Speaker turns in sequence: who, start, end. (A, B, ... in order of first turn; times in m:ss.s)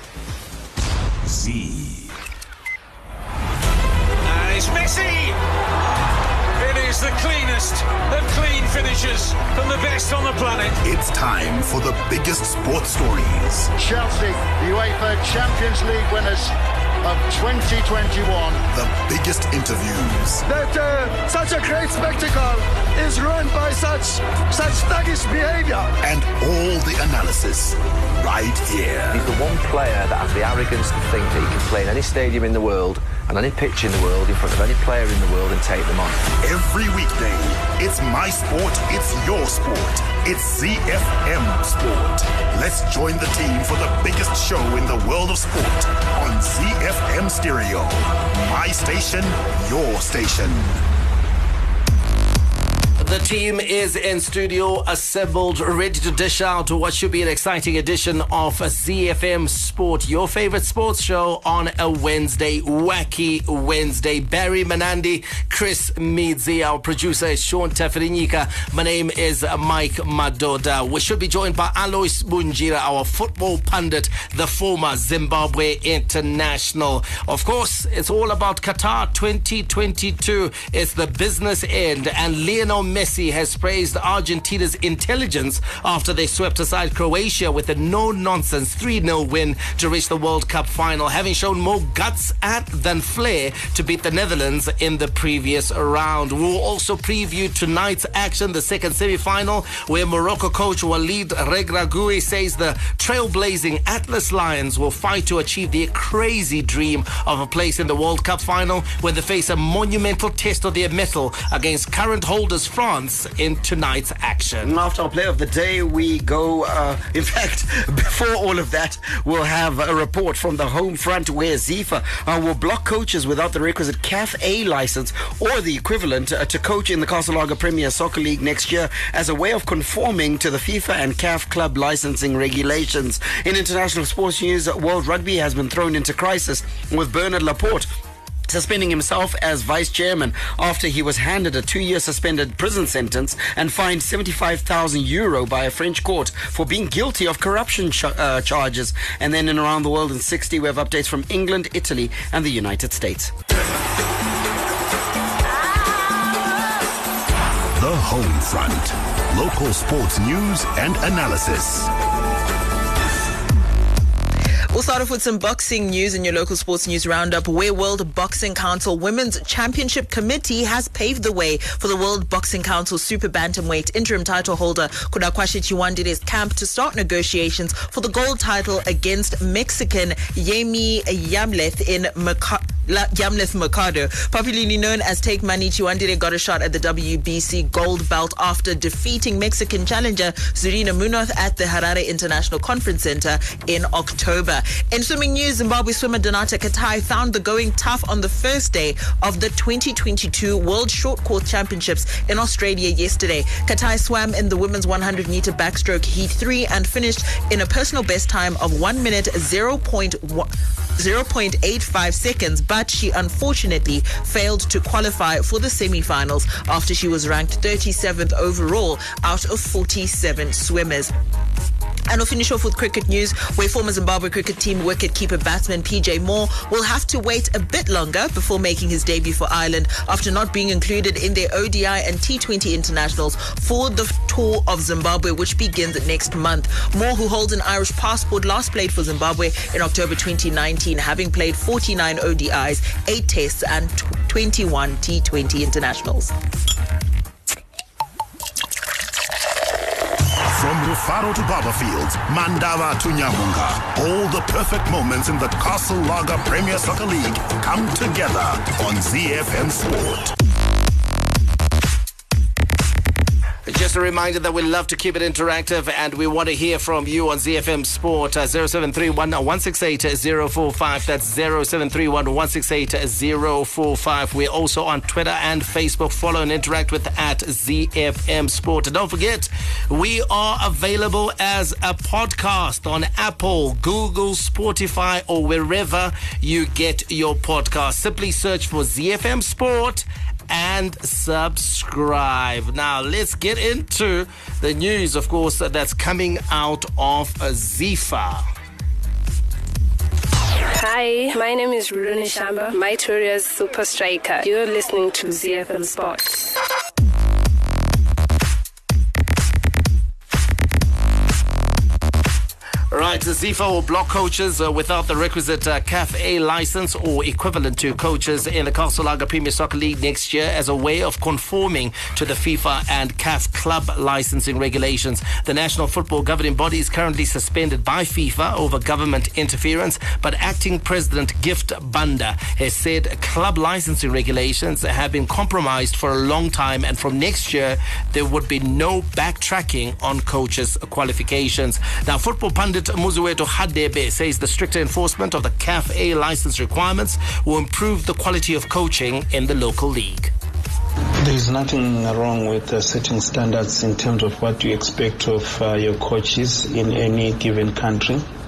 0:01.2-0:02.1 A
0:04.2-0:05.4 B
0:06.6-0:10.8 B
0:10.8-0:13.7 A
0:13.8-0:18.6 C
0:18.7-0:20.4 A
0:20.4-0:26.0 C
0:26.0-0:29.2 A
0:29.1-0:36.3 D
0:36.4-0:50.7 A
0:53.0-1:54.8 E
1:54.6-2:17.9 F
2:18.5-2:33.3 F
2:37.8-2:41.9 A
2:44.7-3:41.1 G
3:42.1-4:06.3 G
4:10.5-4:20.4 A
4:23.7-4:58.4 E
5:00.8-5:06.5 H
5:12.9-5:50.3 E
5:51.2-5:58.3 I